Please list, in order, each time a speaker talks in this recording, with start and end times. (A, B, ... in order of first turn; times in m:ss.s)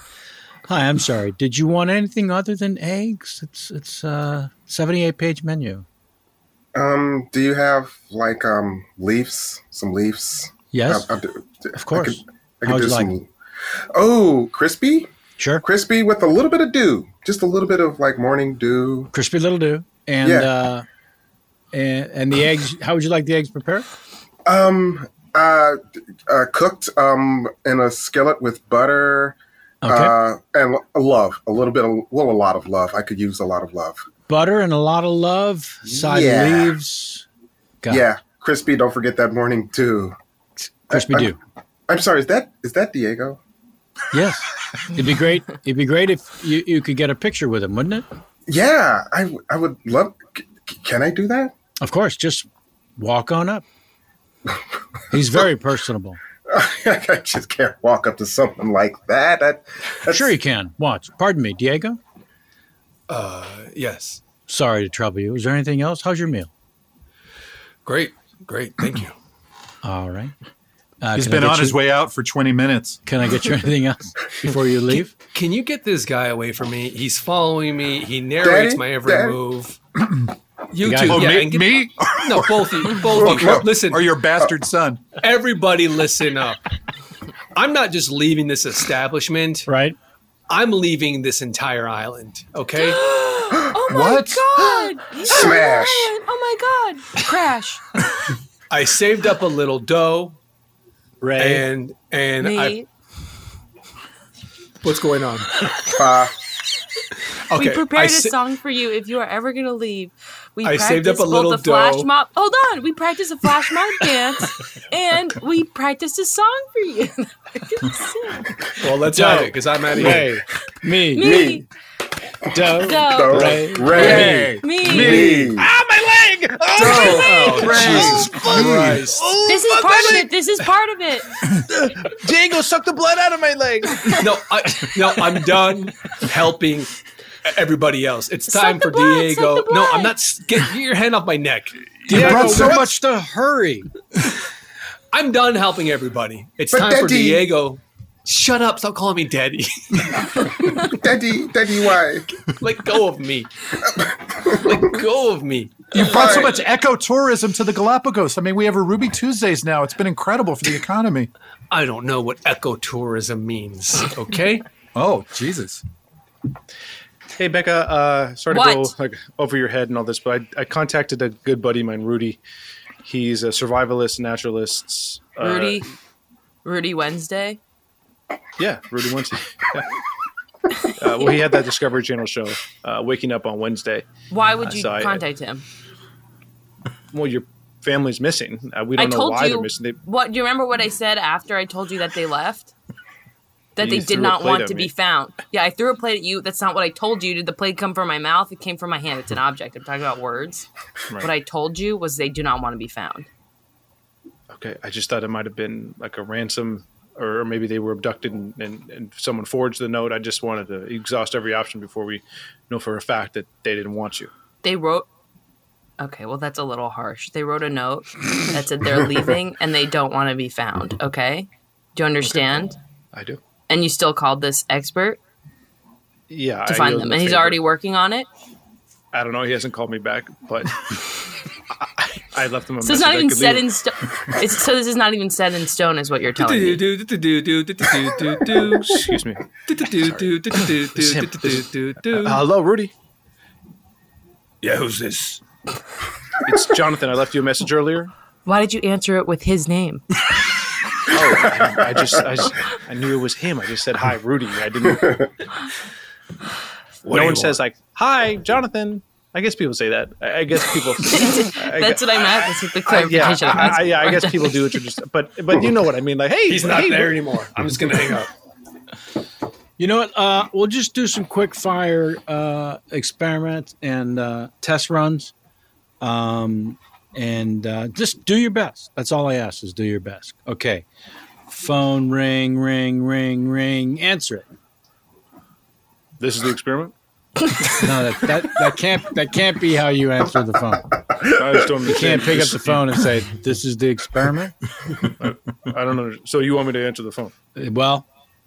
0:00.7-0:05.8 A
0:06.7-0:13.3 B
0:10.7-0:11.1 A
0:11.8-0:13.2 A
0:13.9-0:15.1 B
0:15.4-0:15.6 A
0:15.6-0:19.1 B
0:19.1-0:20.8 A
0:20.2-0:20.5 B
0:21.7-0:23.8 A
0:24.4-0:34.0 B
0:29.8-0:30.2 A
0:34.3-0:37.2 A
0:35.8-0:36.7 B
0:37.9-0:40.1 B
0:40.9-0:41.4 A
0:40.9-0:41.3 B
0:41.9-0:43.4 B
0:44.1-0:48.0 A
0:48.5-0:51.5 B
0:51.8-0:53.6 A
0:55.1-0:56.2 A
0:56.5-1:00.3 B
1:00.1-1:02.0 A
1:03.1-1:04.2 C
1:04.5-1:06.5 A
1:07.8-1:09.1 C
1:09.8-1:10.3 A
1:11.0-1:11.8 A
1:11.2-1:13.0 D
1:13.0-1:15.1 A
1:15.3-1:19.8 C
1:18.4-1:19.4 B
1:20.7-1:24.0 C
1:20.8-1:21.4 A
1:21.0-1:22.6 D
1:23.1-1:23.6 B
1:23.2-1:25.0 D
1:25.2-1:26.6 C
1:27.5-1:29.7 C
1:29.7-1:30.0 A
1:30.5-1:33.0 C
1:32.7-1:37.8 E
1:33.9-1:34.9 D
1:35.2-1:36.1 B
1:38.7-1:40.4 C
1:41.2-1:41.6 A
1:41.4-1:42.8 C
1:42.4-1:42.9 E
1:44.8-1:45.5 C
1:45.9-1:46.3 B
1:47.5-1:48.4 C
1:47.6-1:58.5 E
1:50.6-1:52.1 C
1:58.8-2:00.3 C
1:59.1-2:01.4 A
2:01.1-2:01.6 E
2:01.2-2:01.6 B
2:02.5-2:05.5 A
2:02.6-2:05.7 B
2:02.8-2:05.3 E
2:05.2-2:10.3 F
2:06.8-2:09.3 C
2:06.8-2:07.4 E
2:07.5-2:08.8 A
2:09.4-2:11.3 E
2:11.7-2:14.1 F
2:14.1-2:16.9 C
2:17.4-2:21.8 C
2:18.5-2:20.1 E
2:22.1-2:23.9 A
2:22.1-2:22.8 D
2:22.1-2:22.9 F
2:25.1-2:30.7 C
2:26.7-2:27.5 B
2:30.8-2:32.3 B
2:32.6-2:33.5 C
2:33.8-2:34.8 B
2:34.6-2:36.4 C
2:35.9-2:41.3 D
2:36.0-2:36.5 B
2:41.7-2:44.6 C
2:44.9-2:45.8 D
2:47.4-2:52.4 F
2:48.5-2:48.9 E
2:53.0-2:55.8 F
2:55.4-2:55.9 E
2:56.6-2:57.6 E
2:58.6-2:59.8 F
3:01.0-3:04.1 F
3:01.0-3:01.6 E
3:04.3-3:05.6 E
3:04.6-3:05.2 F
3:07.1-3:10.0 F
3:09.0-3:12.7 E
3:13.8-3:20.6 E
3:13.8-3:14.9 F
3:21.2-3:23.3 E
3:24.5-3:34.3 F
3:34.6-3:35.1 E
3:36.0-3:42.8 E
3:42.2-3:43.4 F
3:43.7-3:45.2 E
3:46.3-3:47.6 F
3:46.6-3:48.3 E
3:49.1-3:50.8 F
3:51.8-3:53.7 F
3:52.8-3:56.8 E
3:56.4-3:59.0 C
3:58.6-3:59.4 F
3:59.6-4:02.4 C
4:00.1-4:02.9 F
4:04.6-4:05.4 C
4:06.5-4:08.1 F
4:08.4-4:10.0 E
4:11.1-4:15.2 F
4:14.9-4:15.2 B
4:17.0-4:17.6 C
4:17.0-4:22.4 F
4:21.0-4:24.8 E
4:22.9-4:27.2 F
4:26.5-4:28.3 C
4:29.8-4:35.3 A
4:36.0-4:40.8 A
4:41.5-4:44.4 A
4:46.2-4:46.9 F
4:47.7-4:50.9 A
4:51.3-4:52.8 F
4:51.8-4:54.5 A
4:55.2-4:57.3 F
4:57.6-4:58.0 A